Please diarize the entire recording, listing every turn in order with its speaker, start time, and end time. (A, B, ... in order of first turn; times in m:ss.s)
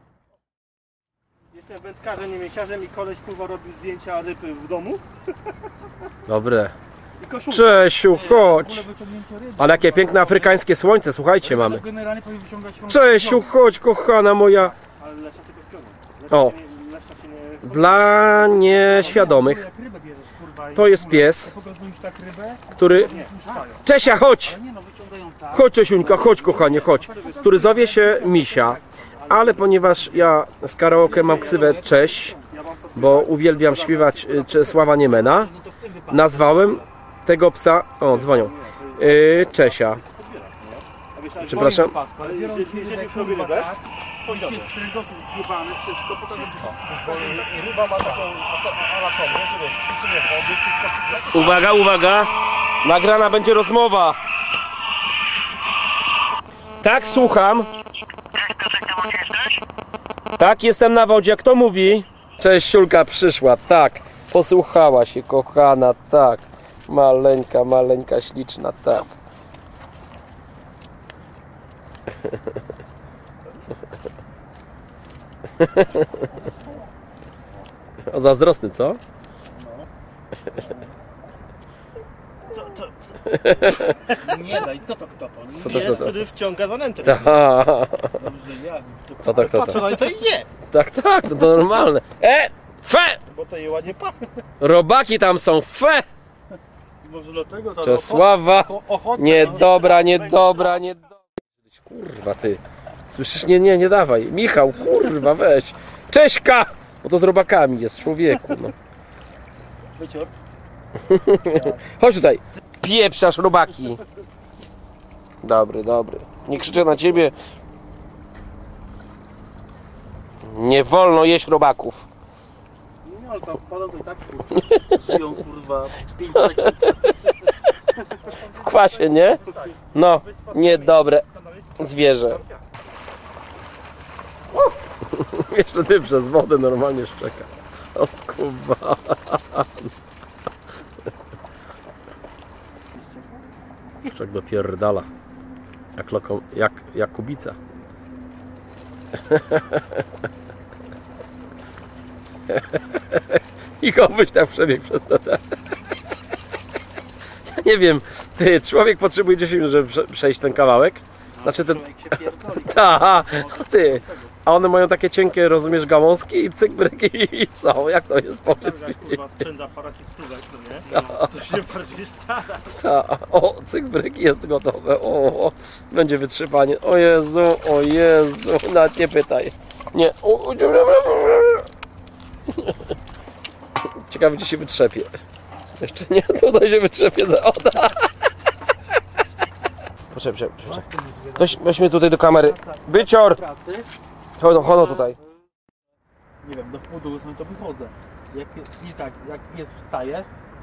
0:01.5-0:05.0 A
0:06.3-0:06.7 B
0:07.2-0:07.9 A
0:07.5-0:08.8 B
0:08.1-0:10.6 C
0:09.6-0:11.8 B
0:11.4-0:13.5 C
0:12.9-0:14.8 B
0:15.0-0:19.4 A
0:16.3-0:16.6 B
0:17.6-0:19.6 B
0:18.8-0:30.3 C
0:20.8-0:21.5 B
0:22.8-0:23.1 B
0:22.9-0:23.7 A
0:23.8-0:24.6 B
0:25.5-0:32.4 B
0:25.9-0:27.6 A
0:29.2-0:30.2 A
0:31.0-0:32.5 C
0:31.0-0:31.9 A
0:32.5-0:34.9 A
0:33.0-0:35.5 B
0:35.1-0:36.9 C
0:36.1-0:40.0 B
0:38.1-0:44.7 A
0:41.4-0:48.2 C
0:41.4-0:42.0 B
0:46.3-0:51.6 A
0:51.3-0:52.3 B
0:52.8-0:54.2 B
0:56.8-0:57.7 B
0:58.8-0:59.3 B
1:00.4-1:09.1 B
1:15.6-1:16.0 B
1:18.1-1:19.0 B
1:19.6-1:19.9 C
1:20.5-1:20.9 C
1:22.5-1:22.9 A
1:23.3-1:24.0 B
1:24.1-1:26.1 C
1:25.6-1:27.4 A
1:25.6-1:26.2 B
1:27.0-1:28.2 B
1:28.2-1:29.3 C
1:29.2-1:29.8 B
1:29.2-1:30.5 A
1:30.7-1:33.2 B
1:33.3-1:34.2 A
1:34.6-1:36.0 B
1:37.0-1:39.9 C
1:37.8-1:41.1 B
1:39.3-1:40.9 A
1:41.7-1:48.7 B
1:50.0-1:50.3 C
1:51.0-1:54.0 B
1:51.5-1:51.8 C
1:55.4-1:57.3 B
1:56.5-1:57.2 C
2:00.4-2:02.1 B
2:03.0-2:07.1 C
2:06.4-2:07.5 B
2:08.2-2:12.7 A
2:08.6-2:09.4 B
2:09.9-2:11.2 B
2:11.8-2:12.4 B
2:14.5-2:19.9 B
2:23.0-2:23.4 C
2:24.1-2:25.1 B
2:26.0-2:27.6 B
2:29.3-2:29.8 B
2:32.6-2:35.4 B
2:37.4-2:41.8 B
2:41.4-2:44.3 C
2:42.5-2:49.2 B
2:48.6-2:52.8 A
2:50.9-2:51.3 B
2:52.8-3:01.7 B
3:04.1-3:05.1 B
3:05.8-3:08.1 B
3:10.1-3:10.8 B
3:10.6-3:13.9 C
3:11.4-3:13.4 B
3:14.4-3:15.2 B
3:14.5-3:15.2 C
3:16.4-3:20.3 C